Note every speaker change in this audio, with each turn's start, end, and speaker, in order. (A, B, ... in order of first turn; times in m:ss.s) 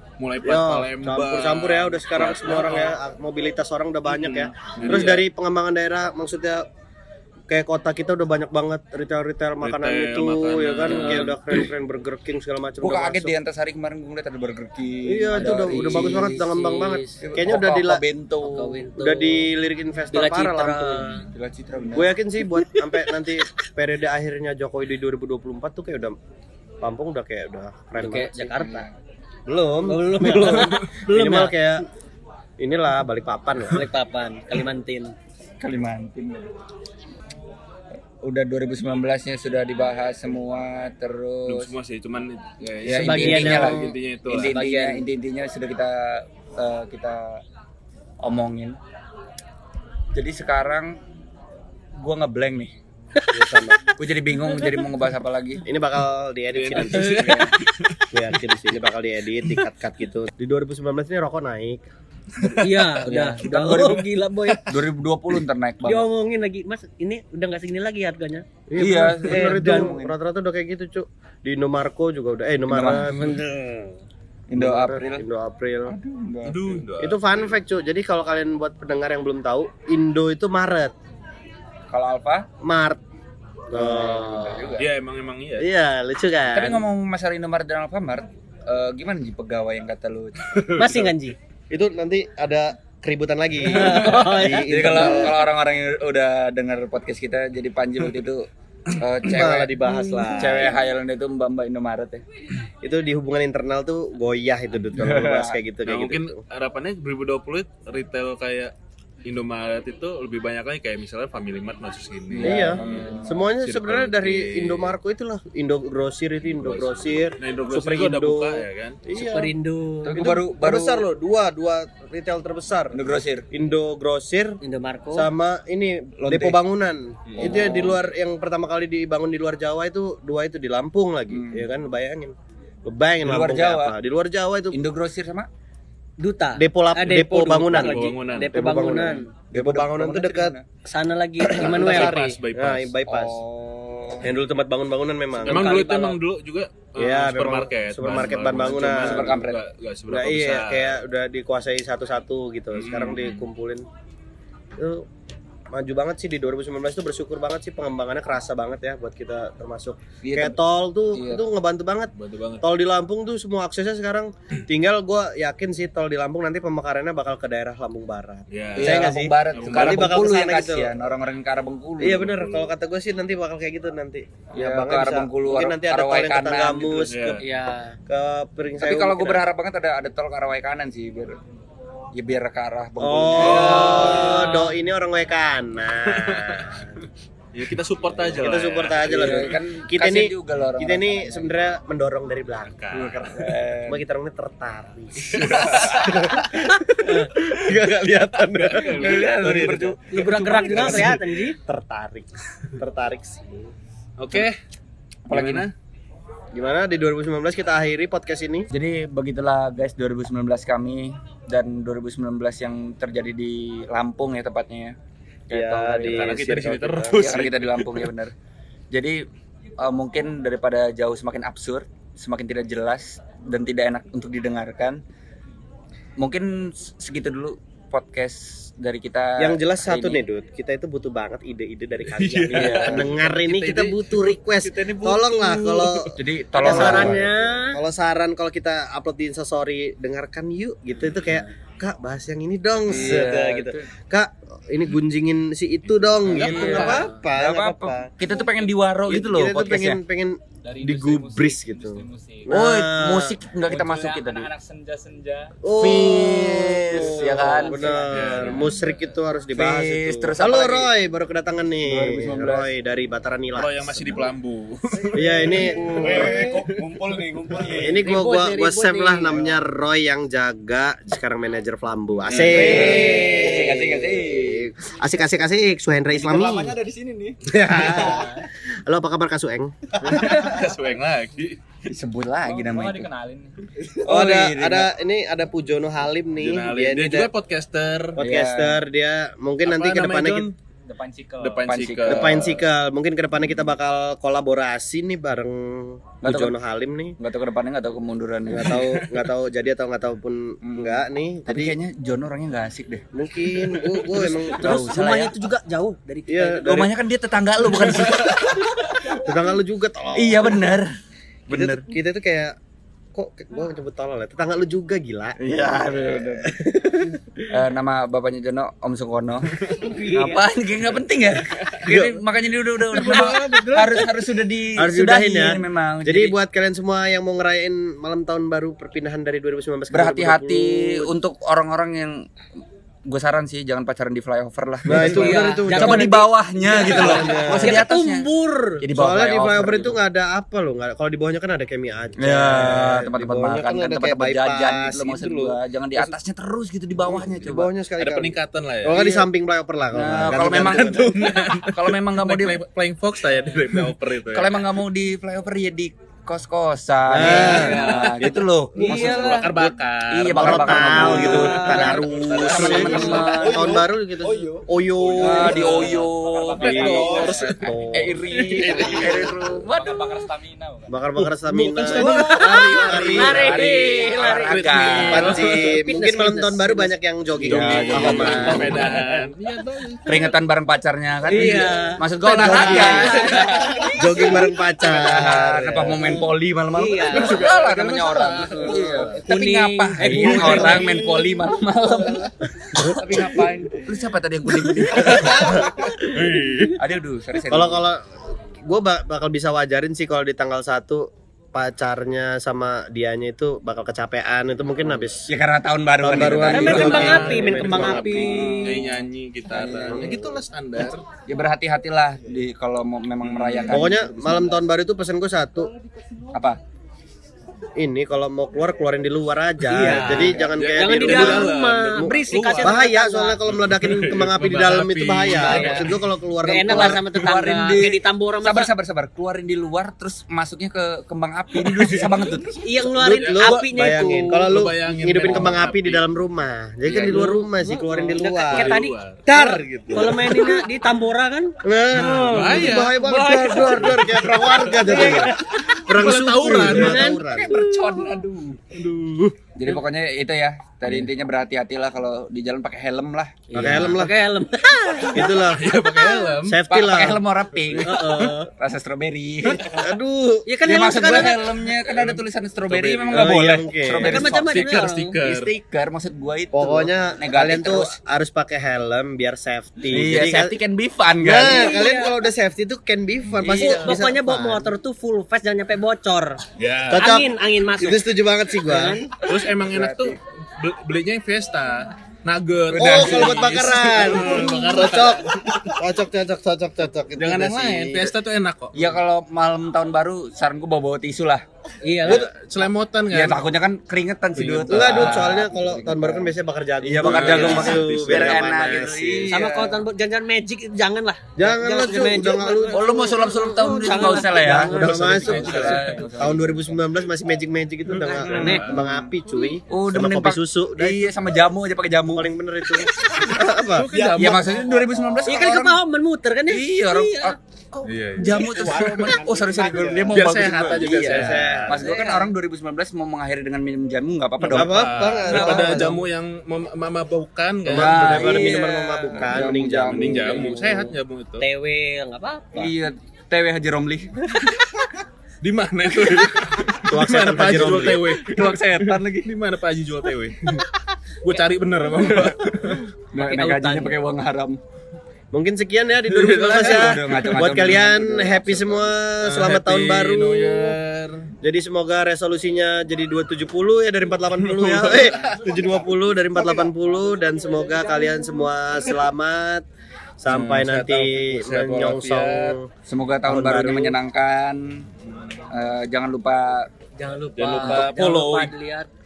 0:00.2-0:03.0 A
0:00.4-0:06.6 B
0:04.2-0:05.2 A
0:07.5-0:13.3 B
0:09.6-0:11.6 A
0:10.9-0:11.2 C
0:12.8-0:16.5 D
0:15.1-0:18.0 B
0:15.4-0:17.2 C
0:17.2-0:18.9 D
0:18.4-0:19.5 C
0:19.0-0:21.2 B
0:20.1-0:21.3 C
0:21.3-0:22.1 D
0:21.9-0:26.2 B
0:26.8-0:28.5 B
0:28.0-0:28.8 C
0:28.3-0:29.0 D
0:29.5-0:31.8 B
0:29.8-0:31.5 C
0:32.6-0:33.9 B
0:33.7-0:35.2 C
0:35.6-0:36.5 D
0:38.2-0:41.7 D
0:41.5-0:44.6 A
0:42.8-0:47.4 D
0:42.9-0:45.0 C
0:48.2-0:48.8 D
0:50.1-0:51.0 D
0:52.0-0:52.7 D
0:53.3-0:53.8 B
0:53.9-0:55.6 D
0:55.6-0:57.4 B
0:56.5-0:58.1 A
0:57.0-0:57.5 C
0:57.0-0:57.5 D
0:58.1-1:01.8 B
1:02.4-1:06.1 D
1:02.4-1:04.8 C
1:05.8-1:08.5 C
1:08.7-1:13.4 B
1:08.8-1:10.1 D
1:09.2-1:09.9 C
1:12.7-1:13.2 D
1:12.9-1:14.0 C
1:14.5-1:15.2 D
1:14.5-1:15.9 B
1:15.9-1:16.8 D
1:16.4-1:17.5 A
1:17.0-1:20.9 B
1:21.9-1:22.5 D
1:22.6-1:23.0 B
1:23.7-1:24.8 B
1:23.7-1:24.9 D
1:24.8-1:25.7 A
1:25.6-1:26.8 B
1:26.5-1:30.7 D
1:30.4-1:31.1 A
1:30.8-1:31.4 C
1:31.7-1:35.4 B
1:33.6-1:35.3 C
1:34.1-1:42.2 D
1:39.2-1:40.7 B
1:40.1-1:40.7 C
1:42.8-1:46.4 B
1:44.9-1:45.6 D
1:45.8-1:48.7 A
1:49.2-1:54.9 A
1:52.4-1:53.5 D
1:52.4-1:59.5 B
1:56.6-1:59.0 A
1:59.1-2:00.4 C
2:00.0-2:01.0 D
2:00.2-2:03.0 B
2:02.9-2:03.5 D
2:03.5-2:04.6 B
2:04.6-2:05.3 C
2:05.1-2:14.8 B
2:06.2-2:06.6 D
2:07.3-2:07.6 A
2:07.4-2:07.9 D
2:11.3-2:11.6 D
2:13.2-2:13.9 D
2:14.7-2:15.5 D
2:16.2-2:19.3 C
2:16.6-2:20.6 B
2:17.7-2:18.5 A
2:19.5-2:20.6 D
2:20.8-2:22.3 C
2:21.5-2:23.4 B
2:21.5-2:22.9 A
2:23.1-2:24.3 D
2:24.2-2:25.9 B
2:25.4-2:26.2 C
2:25.4-2:31.0 A
2:27.0-2:29.4 B
2:28.9-2:29.6 D
2:30.1-2:33.8 B
2:32.7-2:33.4 A
2:34.8-2:35.1 B
2:35.7-2:51.1 B
2:40.2-2:40.6 D
2:41.1-2:41.5 D
2:42.2-2:42.6 A
2:48.5-2:50.2 A
2:48.8-2:52.6 D
2:52.0-2:57.4 B
2:54.5-2:57.1 D
2:57.0-2:57.4 A
2:57.3-2:58.0 C
2:58.1-2:59.4 B
2:58.8-3:01.4 D
3:02.2-3:04.7 D
3:03.0-3:07.0 B
3:03.4-3:04.7 C
3:06.1-3:09.1 A
3:08.2-3:12.8 B
3:09.0-3:11.6 D
3:12.7-3:13.5 A
3:12.9-3:14.0 D
3:13.9-3:23.7 B
3:15.2-3:16.4 D
3:15.3-3:16.6 A
3:17.0-3:17.3 C
3:18.4-3:19.7 A
3:19.0-3:21.2 D
3:20.1-3:21.6 C
3:20.6-3:21.1 A
3:24.2-3:24.6 A
3:25.3-3:25.7 D
3:25.3-3:25.7 A
3:26.5-3:28.7 B
3:28.7-3:35.0 D
3:35.5-3:36.6 D
3:35.5-3:37.4 B
3:36.1-3:38.1 A
3:37.1-3:38.3 D
3:38.9-3:39.2 D
3:39.8-3:45.0 D
3:46.2-3:50.2 D
3:49.4-4:08.1 B
3:52.1-3:56.2 A
3:52.5-3:53.1 D
3:56.2-3:57.2 D
3:56.6-3:57.8 C
4:02.8-4:03.9 D
4:06.0-4:07.1 A
4:06.3-4:10.0 D
4:06.7-4:07.2 C
4:09.1-4:13.4 B
4:10.6-4:12.5 E
4:12.5-4:14.5 D
4:13.6-4:15.5 E
4:15.6-4:24.2 B
4:15.8-4:18.3 D
4:16.8-4:18.0 E
4:18.1-4:18.8 A
4:19.5-4:20.9 D
4:21.8-4:22.7 D
4:23.5-4:26.6 A
4:25.1-4:26.4 B
4:25.2-4:28.1 D
4:27.0-4:27.6 E
4:27.6-4:36.8 B
4:28.0-4:29.4 C
4:32.3-4:34.7 D
4:32.3-4:33.1 A
4:36.1-4:38.2 D
4:36.4-4:37.0 E
4:37.4-4:40.0 B
4:40.0-4:41.6 A
4:40.1-4:40.4 D
4:41.9-4:43.1 D
4:42.4-4:43.7 E
4:43.8-4:44.9 D
4:44.1-4:47.3 B
4:46.4-4:48.2 A
4:48.2-4:48.8 D
4:48.2-4:50.5 B
4:49.6-4:50.5 A
4:50.9-4:51.7 E
4:51.4-4:52.5 A
4:51.6-4:52.6 D
4:52.1-4:57.2 B
4:56.2-4:56.5 D
4:57.2-4:58.8 D
4:58.5-5:01.8 B
4:58.8-4:59.2 A
5:00.6-5:03.0 D
5:03.1-5:04.9 B
5:03.6-5:04.2 A
5:04.1-5:05.3 D
5:04.6-5:06.8 C
5:06.3-5:06.9 B
5:06.6-5:09.2 D
5:09.2-5:10.7 B
5:10.2-5:10.9 D
5:11.5-5:11.9 D
5:11.5-5:12.5 B
5:13.1-5:17.4 B
5:15.4-5:26.4 D
5:19.8-5:20.5 C
5:21.8-5:22.2 B
5:22.8-5:24.1 B
5:24.8-5:31.1 B
5:29.9-5:32.3 D
5:33.1-5:38.3 D
5:34.8-5:37.9 B
5:34.9-5:38.8 C
5:38.8-5:40.0 D
5:38.8-5:46.2 B
5:42.2-5:47.7 D
5:47.0-5:51.3 B
5:48.0-5:49.0 A
5:48.9-5:49.2 D
5:49.9-5:52.6 D
5:50.4-5:54.6 A
5:54.3-6:03.8 D
5:57.1-5:58.4 B
5:57.1-6:03.4 A
5:58.8-5:59.6 C
6:00.3-6:06.0 B
6:01.0-6:03.6 C
6:03.6-6:03.8 E
6:05.0-6:05.4 A
6:05.2-6:10.0 D
6:05.2-6:07.5 E
6:06.6-6:08.2 B
6:06.7-6:07.6 A
6:08.3-6:11.0 E
6:08.6-6:09.2 A
6:10.9-6:13.7 B
6:11.5-6:12.6 A
6:11.9-6:15.5 D
6:12.0-6:16.9 C
6:12.0-6:13.6 E
6:14.6-6:19.0 B
6:14.6-6:15.6 A
6:17.4-6:18.8 D
6:17.4-6:20.3 A
6:18.2-6:19.0 C
6:20.1-6:35.7 D
6:21.3-6:24.4 C
6:21.3-6:21.7 A
6:22.3-6:23.2 B
6:22.4-6:23.9 A
6:23.2-6:24.1 E
6:24.0-6:26.2 B
6:26.0-6:27.4 C
6:27.1-6:29.2 A
6:28.7-6:31.1 C
6:30.1-6:31.1 A
6:32.8-6:33.2 B
6:33.2-6:33.5 A
6:33.2-6:33.7 E
6:34.9-6:36.8 A
6:35.1-6:36.0 B
6:36.8-6:37.8 D
6:37.5-6:38.0 B
6:38.6-6:45.3 B
6:45.2-6:49.0 D
6:46.0-6:48.4 B
6:46.4-6:49.0 C
6:46.4-6:51.0 A
6:49.5-6:50.2 D
6:49.7-6:50.4 B
6:51.2-6:54.6 D
6:53.2-6:53.8 A
6:53.7-6:55.7 B
6:57.8-7:07.0 B
6:59.7-7:03.4 C
6:59.8-7:00.4 D
6:59.8-7:02.8 A
7:03.5-7:06.0 A
7:05.4-7:08.7 C
7:06.6-7:12.6 D
7:11.6-7:16.1 A
7:12.6-7:14.6 C
7:12.8-7:20.6 B
7:16.8-7:19.2 A
7:17.0-7:17.4 C
7:18.1-7:23.6 C
7:21.6-7:27.6 B
7:21.9-7:27.2 A
7:23.4-7:24.0 D
7:24.8-7:25.8 C
7:26.4-7:28.1 C
7:27.2-7:28.7 D
7:28.7-7:29.4 A
7:29.5-7:33.9 D
7:33.5-7:34.2 B
7:33.6-7:34.0 A
7:33.7-7:35.5 C
7:35.1-7:35.8 B
7:35.4-7:36.6 A
7:36.0-7:36.3 C
7:36.4-7:37.2 B
7:36.7-7:39.8 D
7:37.8-7:38.5 C
7:39.6-7:40.5 B
7:40.5-7:41.6 C
7:40.6-7:48.0 D
7:41.9-7:43.3 A
7:43.1-7:44.3 B
7:44.0-7:45.2 C
7:44.4-7:45.5 A
7:46.5-7:50.6 B
7:49.9-7:51.8 D
7:51.2-7:54.8 B
7:51.4-7:52.2 C
7:53.3-7:54.0 D
7:53.4-7:56.4 C
7:56.6-7:57.2 A
7:56.9-7:59.0 B
7:56.9-7:59.1 C
7:59.2-8:05.7 A
7:59.4-8:00.2 D
8:02.7-8:03.7 D
8:02.8-8:08.1 B
8:07.2-8:09.0 A
8:08.7-8:11.4 D
8:11.8-8:12.3 C
8:12.0-8:13.4 A
8:13.1-8:19.8 D
8:14.4-8:15.3 A
8:14.7-8:19.4 B
8:17.0-8:18.5 A
8:19.3-8:26.0 C
8:21.4-8:22.9 B
8:22.7-8:26.8 D
8:24.2-8:31.1 B
8:25.1-8:25.8 A
8:27.9-8:28.8 A
8:28.3-8:28.8 C
8:28.5-8:29.1 D
8:29.7-8:32.3 D
8:32.1-8:34.2 B
8:33.2-8:34.8 A
8:34.2-8:35.8 D
8:35.2-8:37.4 C
8:36.5-8:46.0 D
8:37.8-8:38.9 A
8:38.3-8:39.3 C
8:39.6-8:40.2 B
8:40.1-8:41.8 A
8:40.8-8:41.9 B
8:41.7-8:42.3 C
8:44.4-8:48.5 A
8:44.4-8:46.0 B
8:47.7-8:50.5 B
8:47.7-8:50.9 D
8:49.8-8:51.5 A
8:51.4-8:52.7 C
8:52.5-8:54.6 D
8:55.4-9:00.7 A
8:56.8-8:58.0 B
8:57.5-8:59.3 D
9:01.2-9:02.8 A
9:02.4-9:04.6 D
9:03.2-9:04.0 C
9:05.3-9:10.8 B
9:06.1-9:07.2 A
9:06.5-9:08.9 D
9:09.2-9:11.3 A
9:11.4-9:19.7 B
9:14.5-9:15.4 A
9:20.2-9:22.7 B
9:20.3-9:20.9 D
9:20.4-9:22.6 A
9:22.8-9:24.8 D
9:23.2-9:24.0 B
9:25.0-9:25.4 A
9:25.5-9:26.7 D
9:27.0-9:28.9 C
9:27.4-9:28.5 A